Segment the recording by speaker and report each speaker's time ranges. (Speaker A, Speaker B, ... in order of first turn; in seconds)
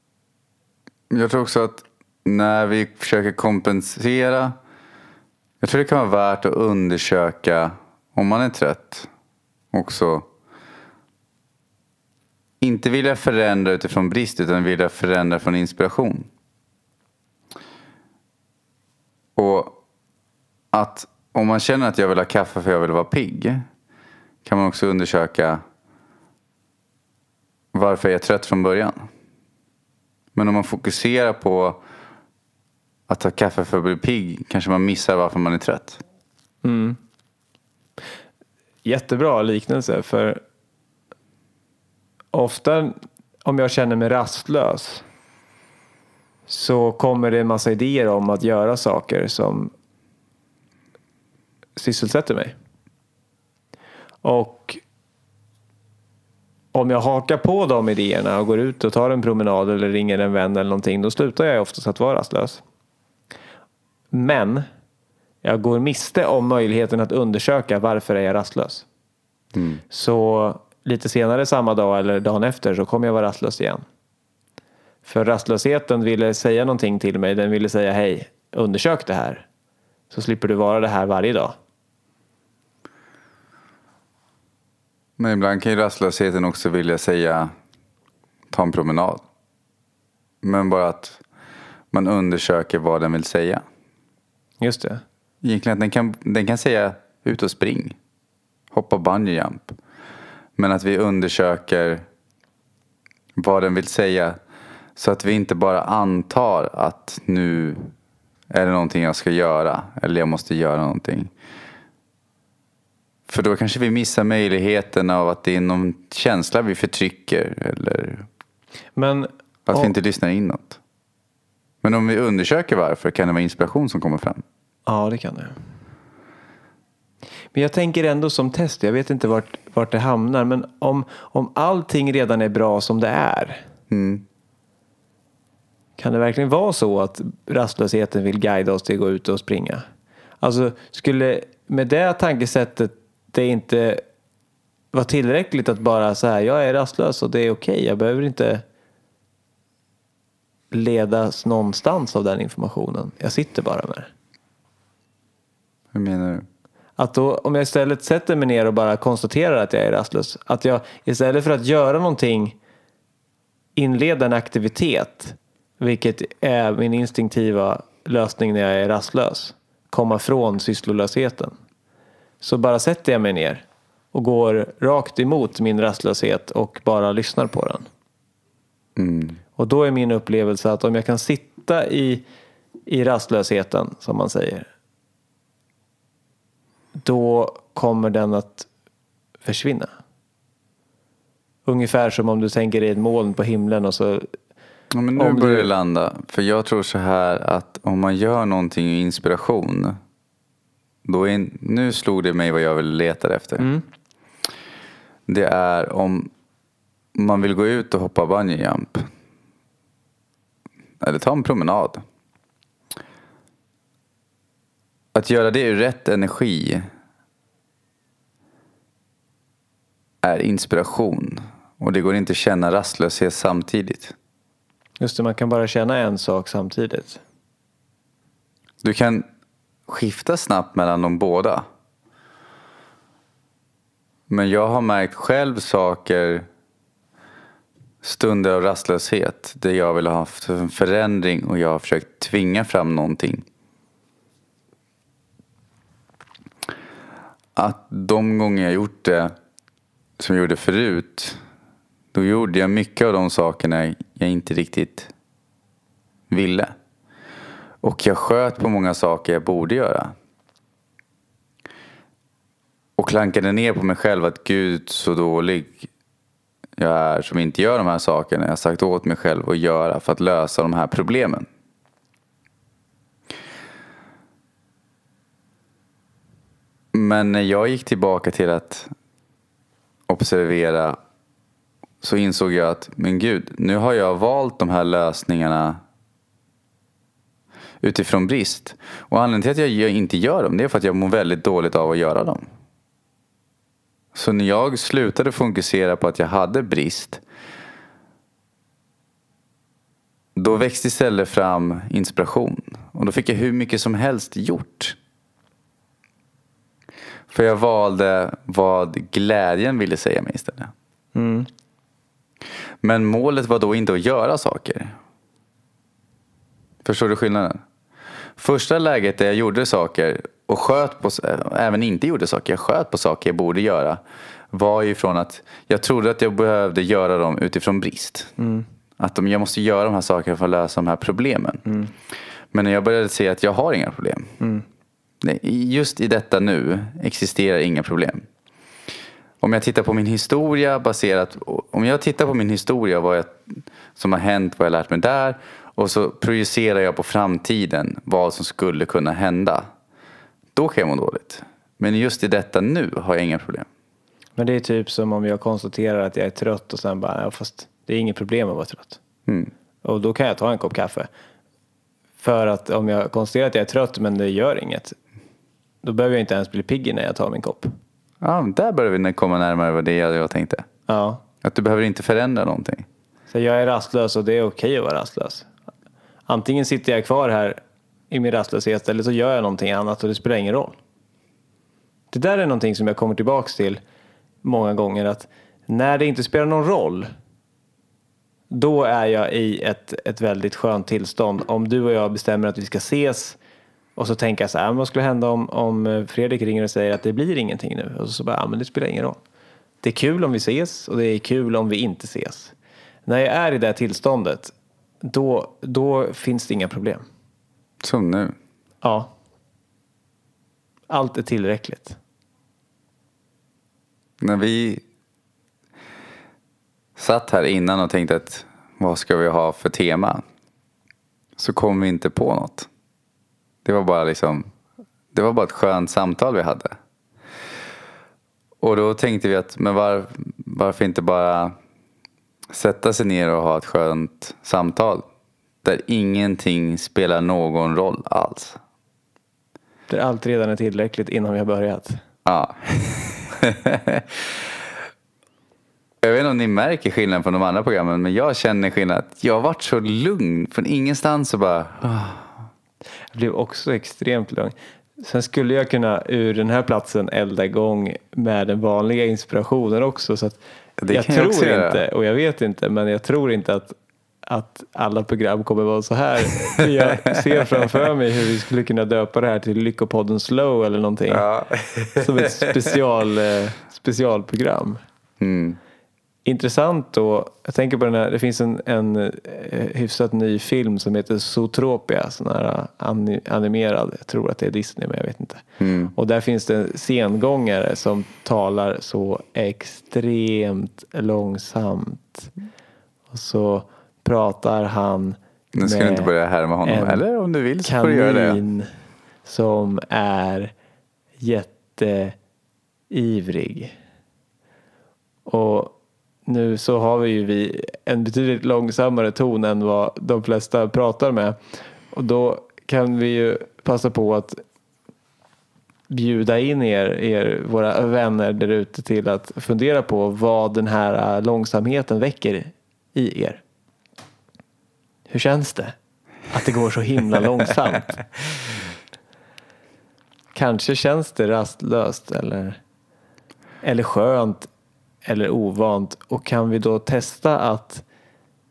Speaker A: 1.1-4.6, 5.6-9.1, 9.7-10.3, 12.6-16.3, 19.4-19.8, 20.7-23.7, 24.4-25.6, 27.7-29.0, 30.4-31.8, 33.1-36.0, 69.5-69.8, 85.2-87.5, 88.5-89.2, 90.4-91.2, 91.9-93.6, 95.4-98.0, 98.7-99.8, 100.6-102.0, 103.4-104.4, 105.0-107.9, 108.5-111.3, 113.3-118.3, 119.7-120.8, 121.8-124.4, 133.9-134.2, 155.9-156.5, 179.0-179.4, 194.9-200.0, 201.1-203.7, 205.3-206.3, 207.2-209.1, 211.0-212.0, 215.1-216.9, 220.2-224.2, 228.8-229.2, 229.9-231.7, 234.3-236.5, 238.0-243.4, 247.6-249.3, 250.2-251.4, 252.1-255.1, 256.3-256.7, 257.8-260.1, 263.0-265.9, 266.8-271.5, 276.9-278.9, 280.1-281.0, 282.0-285.8, 287.8-292.5, 294.1-297.2, 300.4-305.0, 307.3-310.7, 312.8-315.0, 316.9-317.6, 318.4-324.0, 324.5-328.3, 329.0-331.6, 332.5-334.3, 335.2-338.3, 339.4-349.7, 350.6-353.7, 359.3-359.5, 368.2-370.7, 371.4-372.9, 407.8-408.4, 414.2-414.8, 417.0-420.2, 421.4-422.7, 423.6-424.5, 425.1-426.7, 428.6-431.6, 432.5-435.1, 435.6-438.6, 442.2-444.4, 446.0-452.3, 460.8-461.8, 466.9-467.4, 471.1-472.4, 475.2-475.6, 485.6-485.9, 495.6-498.4
Speaker B: 36.6-37.0, 38.9-40.4, 42.3-45.1, 46.5-49.7, 51.8-52.5, 54.2-54.8, 56.7-62.6, 64.1-64.7, 65.4-68.9, 69.9-73.8, 75.0-79.5, 80.1-81.6, 94.6-95.0, 119.0-119.9, 124.9-125.6, 127.5-133.6, 136.0-139.8, 140.4-144.0, 144.9-148.6, 150.7-154.1, 157.0-162.6, 163.8-171.6, 172.4-177.9, 179.6-182.2, 182.9-184.7, 187.0-188.7, 189.4-189.9, 191.7-194.3, 195.2-195.7, 203.6-203.8, 225.0-227.2, 311.1-311.5, 328.4-328.7, 331.7-331.9, 334.4-334.6, 354.4-359.0, 359.8-361.1, 362.2-365.0, 365.8-367.7, 370.9-371.2, 373.3-375.5, 376.3-380.8, 382.1-383.8, 384.4-387.1, 388.5-393.4, 394.0-399.2, 399.8-402.6, 403.1-407.0, 408.8-409.1, 410.9-412.0, 439.9-442.0, 453.1-463.8, 464.3-471.3, 472.0-474.8, 476.2-485.4, 485.9-492.3, 493.1-496.1, 496.6-497.0, 497.6-498.7, 499.2-500.5, 501.2-502.2, 502.9-503.8, 505.3-505.7, 506.3-511.4, 511.9-514.4, 515.9-523.4, 525.1-525.8, 526.3-528.1, 530.3-532.6, 533.6-534.5, 535.0-537.8